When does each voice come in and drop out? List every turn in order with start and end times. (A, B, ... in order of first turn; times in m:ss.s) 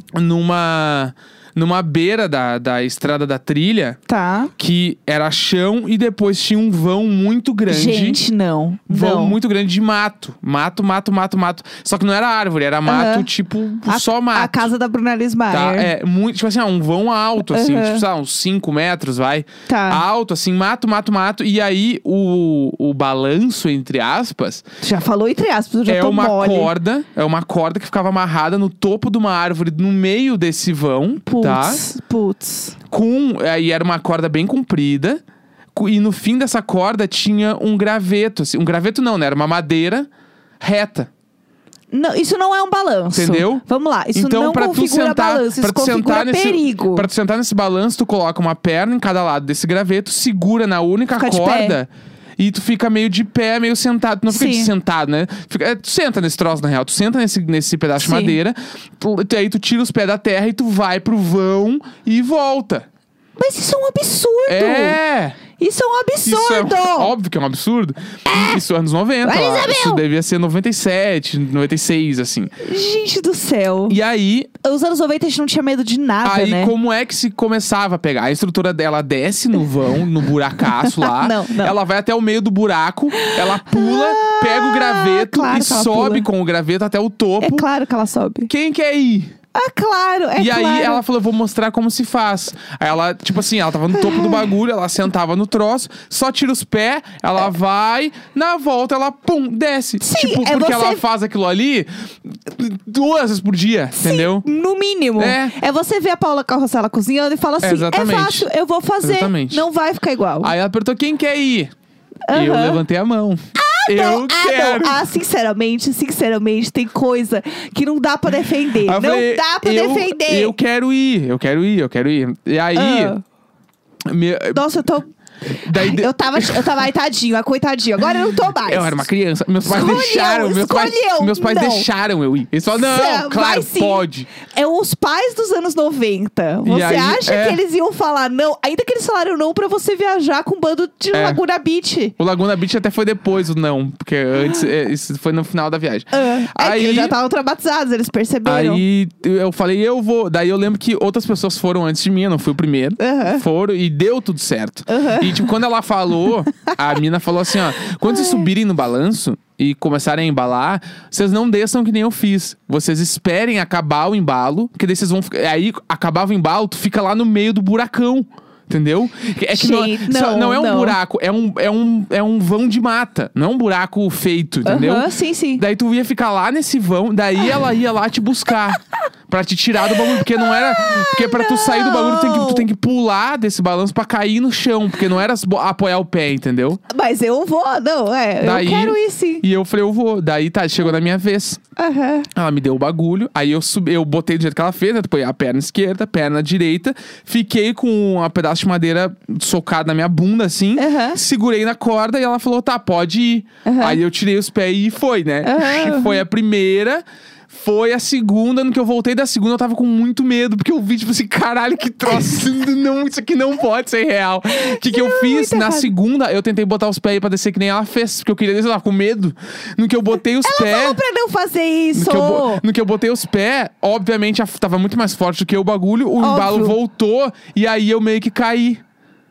0:00.1-0:04.0 A
0:04.1-0:04.5 B
0:04.6-0:08.2 A
0:07.7-0:09.4 B
0:08.9-0:14.7 A
0:12.8-0:13.3 B
0:13.8-0:15.9 B
0:15.5-0:24.6 A
0:17.5-0:18.0 B
0:19.7-0:20.0 B
0:24.8-0:26.7 B
0:25.8-0:31.8 A
0:31.2-0:32.8 B
0:32.9-0:35.2 A
0:35.7-0:40.1 A
0:40.6-0:41.1 A
0:41.9-0:47.1 B
0:43.1-1:02.9 A
0:51.2-0:51.8 B
0:54.3-0:54.7 B
0:58.0-0:58.4 B
1:03.4-1:05.0 B
1:04.5-1:05.4 A
1:05.6-1:07.1 B
1:06.2-1:12.5 A
1:08.3-1:08.6 B
1:09.2-1:10.0 B
1:12.6-1:14.0 B
1:13.9-1:14.5 A
1:14.6-1:16.7 B
1:16.2-1:27.6 A
1:20.7-1:21.8 B
1:23.1-1:26.3 B
1:27.4-1:28.5 B
1:28.5-1:29.3 A
1:29.5-1:31.0 B
1:30.4-1:44.4 A
1:33.9-1:34.5 B
1:40.0-1:41.0 B
1:44.0-1:50.5 B
1:45.2-1:45.6 A
1:47.6-1:48.5 A
1:49.0-1:49.6 A
1:50.4-1:51.7 A
1:52.3-1:52.8 B
1:52.3-1:55.0 A
1:53.6-2:00.5 B
1:58.8-2:03.1 A
2:02.7-2:03.2 B
2:04.0-2:04.6 A
2:04.5-2:05.1 B
2:05.6-2:06.8 A
2:05.6-2:09.0 B
2:08.6-2:14.3 A
2:09.6-2:11.9 B
2:12.7-2:22.1 B
2:16.6-2:17.6 A
2:21.1-2:21.4 A
2:22.2-2:27.2 A
2:26.1-2:28.8 B
2:28.4-3:06.8 A
2:33.0-2:33.4 B
2:34.9-2:35.5 B
2:38.0-2:38.5 B
2:49.5-2:51.0 B
2:54.6-2:55.6 B
2:59.9-3:02.7 B
3:06.9-3:09.4 B
3:08.4-3:11.6 A
3:11.8-3:12.3 B
3:12.3-3:41.0 A
3:20.8-3:21.2 B
3:23.6-3:24.0 B
3:25.4-3:26.2 B
3:34.5-3:35.9 B
3:40.4-3:42.6 B
3:41.9-3:48.8 A
3:46.2-3:46.8 B